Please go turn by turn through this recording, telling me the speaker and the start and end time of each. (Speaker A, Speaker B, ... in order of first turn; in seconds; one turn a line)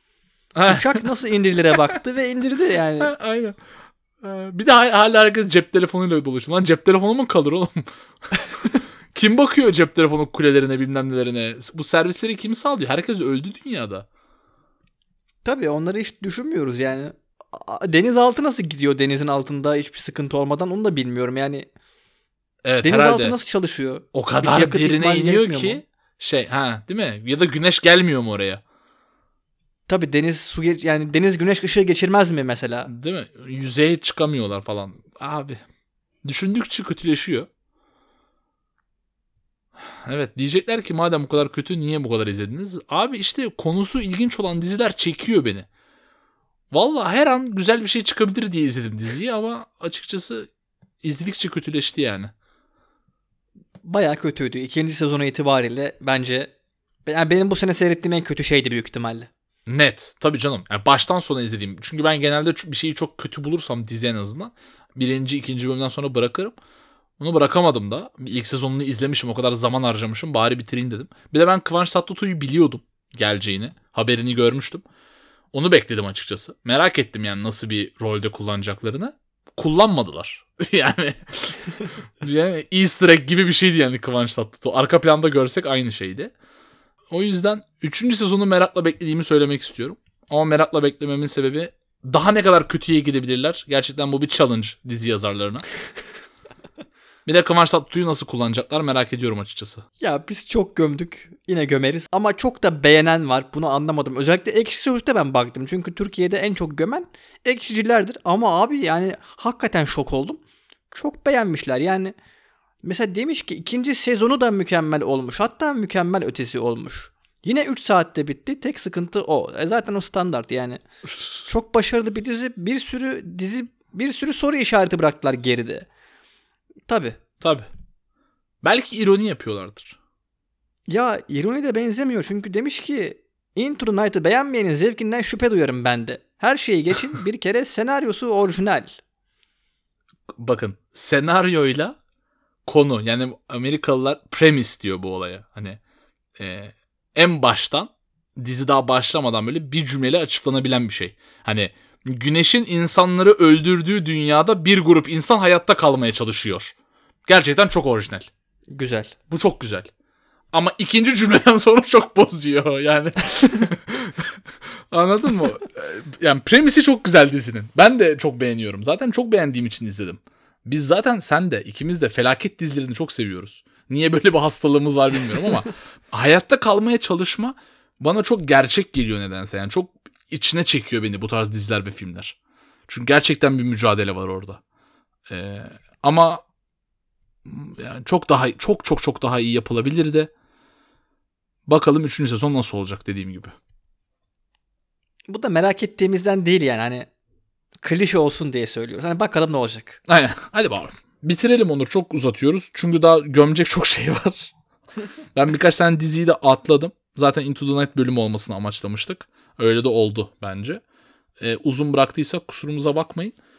Speaker A: 0.5-1.0
Speaker B: 0.6-3.1
Speaker A: 3.0-3.6
Speaker A: 4.2-14.1
Speaker B: 15.4-21.7
Speaker A: 22.6-23.4
Speaker B: 22.8-25.8
Speaker A: 24.1-28.6
Speaker B: 29.9-32.9
Speaker A: 32.9-35.6
Speaker A: 36.2-37.5
Speaker A: 39.8-45.7
Speaker A: 46.7-50.5
Speaker A: 51.0-52.3
Speaker B: 53.8-56.5
Speaker B: 57.0-59.3
Speaker A: 59.7-66.5
Speaker A: 67.2-74.8
Speaker A: 75.5-86.3
Speaker A: 87.1-95.6
Speaker A: 97.2-99.8
Speaker B: 100.0-112.1
Speaker B: 112.8-120.8
Speaker B: 121.5-125.9
Speaker B: 126.9-127.2
Speaker A: 127.4-127.7
Speaker A: 128.6-130.0
Speaker B: 130.9-138.9
Speaker A: 140.4-142.0
Speaker A: 142.7-145.8
Speaker A: 146.4-156.7
Speaker A: 157.2-158.3
Speaker B: 158.7-159.1
Speaker A: 159.3-159.9
Speaker A: 160.5-182.4
Speaker A: 182.9-184.6
Speaker A: 185.3-186.4
Speaker A: 187.4-190.3
Speaker A: 191.7-193.5
Speaker B: 195.3-197.1
Speaker B: 197.8-200.0
Speaker A: 200.1-204.5
Speaker A: 205.3-210.8
Speaker A: 211.4-213.3